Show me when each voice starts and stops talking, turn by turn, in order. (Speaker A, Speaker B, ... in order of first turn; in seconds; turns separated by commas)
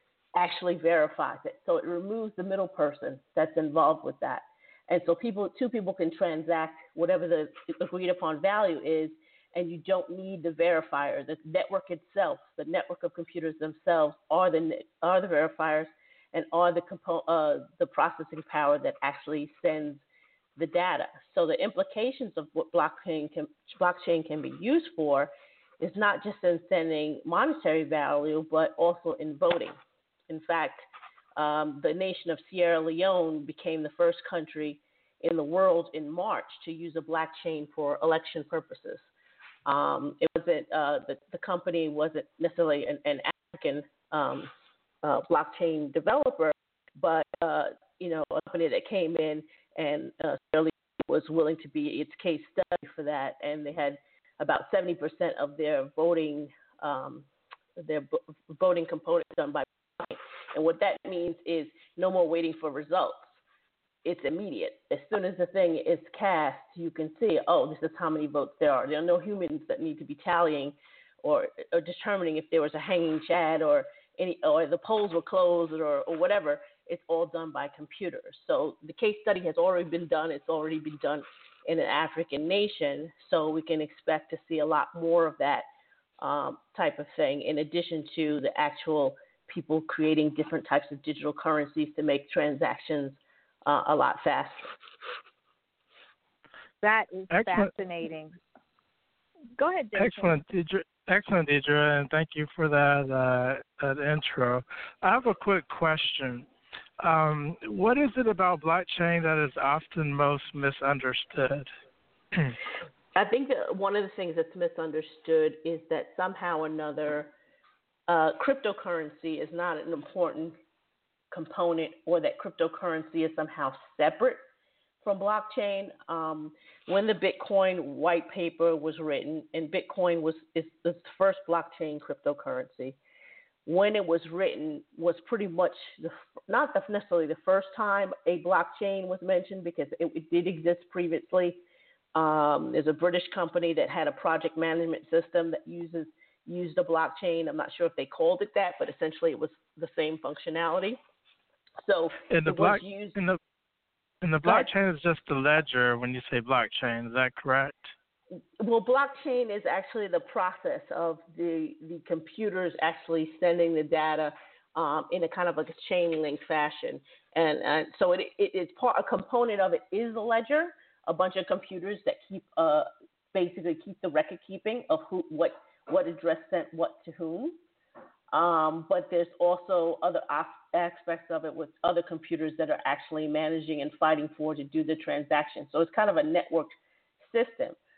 Speaker A: 0.3-20.0, Speaker A: 20.6-29.8, Speaker A: 30.3-39.0, Speaker A: 39.7-44.5, Speaker A: 45.0-57.3, Speaker A: 57.8-63.4, Speaker A: 64.0-85.7, Speaker A: 86.2-94.7, Speaker B: 96.8-98.3, Speaker C: 97.3-97.7, Speaker B: 99.6-100.3, Speaker C: 100.0-106.5, Speaker C: 107.0-111.7, Speaker A: 113.2-117.3, Speaker A: 118.1-120.5, Speaker A: 121.3-124.4, Speaker A: 125.0-133.0, Speaker A: 133.7-141.6, Speaker A: 142.2-151.0, Speaker A: 151.8-153.2, Speaker C: 152.3-153.4, Speaker C: 154.2-157.9, Speaker A: 154.4-154.7, Speaker A: 158.6-177.6, Speaker A: 178.3-187.8